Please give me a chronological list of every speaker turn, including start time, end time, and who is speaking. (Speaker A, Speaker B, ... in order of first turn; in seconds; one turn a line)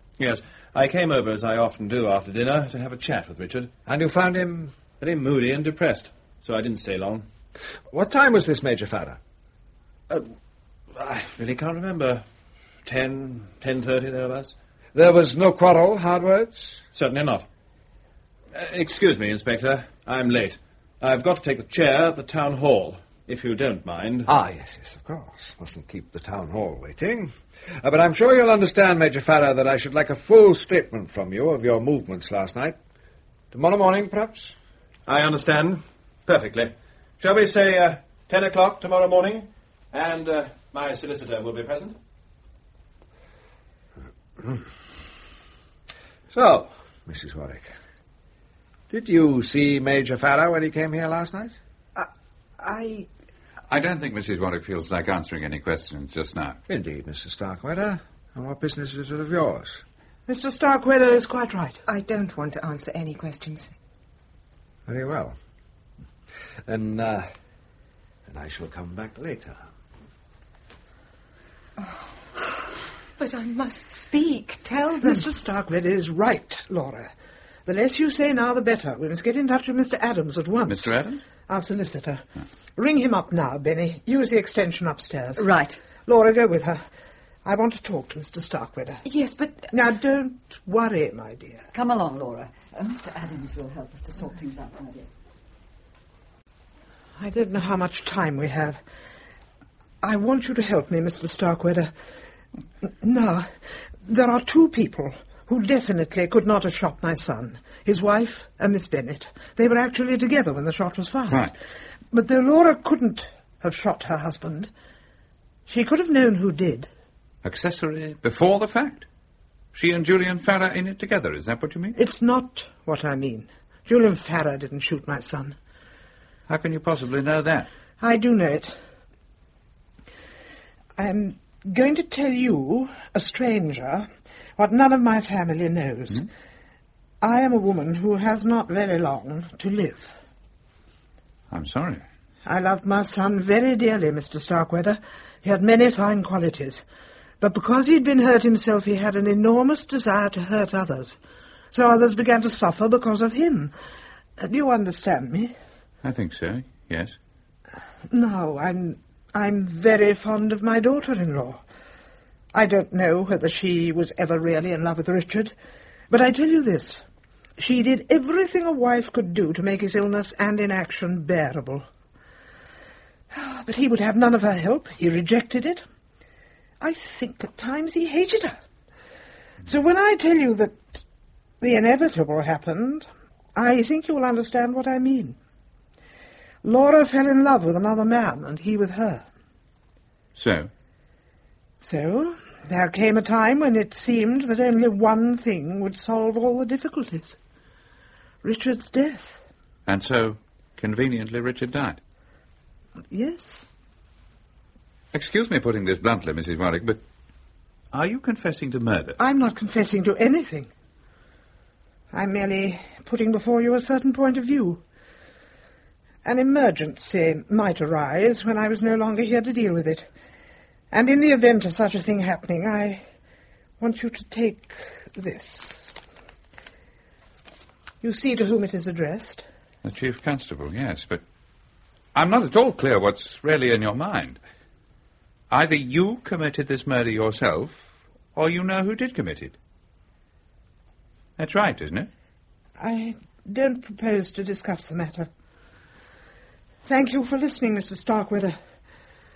Speaker A: 0.2-3.7
Speaker B: 3.8-4.8
Speaker A: 4.9-7.2
Speaker B: 7.9-9.2
Speaker A: 10.9-12.2
Speaker A: 12.8-14.5
Speaker B: 14.9-16.8
Speaker A: 16.9-17.5
Speaker A: 18.5-24.3
Speaker B: 24.3-32.8
Speaker B: 33.5-34.5
Speaker A: 35.0-42.0
Speaker B: 46.3-47.7
Speaker B: 48.9-51.6
Speaker C: 52.6-53.0
Speaker D: 53.7-56.6
Speaker B: 56.7-59.8
Speaker E: 60.3-61.8
Speaker C: 61.9-63.7
Speaker B: 64.8-65.3
Speaker B: 66.7-67.3
Speaker B: 68.3-69.6
Speaker C: 73.2-75.2
Speaker E: 75.0-77.1
Speaker E: 77.7-82.2
Speaker D: 80.7-81.2
Speaker E: 82.8-86.8
Speaker F: 85.4-85.8
Speaker E: 87.4-89.0
Speaker C: 89.0-89.7
Speaker E: 89.7-91.6
Speaker F: 91.7-95.1
Speaker E: 97.2-98.8
Speaker E: 100.0-101.9
Speaker E: 102.8-103.5
Speaker E: 104.0-111.5
Speaker D: 111.3-111.5
Speaker E: 112.1-114.7
Speaker E: 115.7-116.9
Speaker D: 117.4-119.0
Speaker D: 119.7-122.0
Speaker E: 122.0-125.5
Speaker D: 126.5-127.7
Speaker E: 128.0-128.7
Speaker E: 131.0-136.3
Speaker E: 137.2-140.1
Speaker D: 141.5-142.0
Speaker E: 142.4-146.8
Speaker E: 147.4-151.2
Speaker E: 151.7-153.7
Speaker E: 154.4-155.5
Speaker D: 156.0-157.2
Speaker E: 158.1-161.6
Speaker E: 162.5-165.5
Speaker E: 166.1-167.0
Speaker E: 167.6-171.8
Speaker E: 173.3-175.8
Speaker E: 176.8-178.6
Speaker E: 179.6-181.0
Speaker E: 181.6-185.3
Speaker E: 186.6-189.3
Speaker D: 190.3-190.7
Speaker E: 191.8-197.4
Speaker E: 198.4-199.4
Speaker D: 199.8-202.0
Speaker E: 203.1-203.7
Speaker D: 205.1-207.0
Speaker D: 207.9-209.2
Speaker E: 209.2-210.7
Speaker E: 212.1-214.8
Speaker E: 216.2-220.1
Speaker E: 220.9-223.0
Speaker E: 223.8-225.9
Speaker E: 228.0-229.4
Speaker D: 229.8-231.2
Speaker D: 232.1-234.4
Speaker D: 235.5-239.6
Speaker D: 241.4-242.1
Speaker E: 242.8-245.3
Speaker E: 246.8-248.6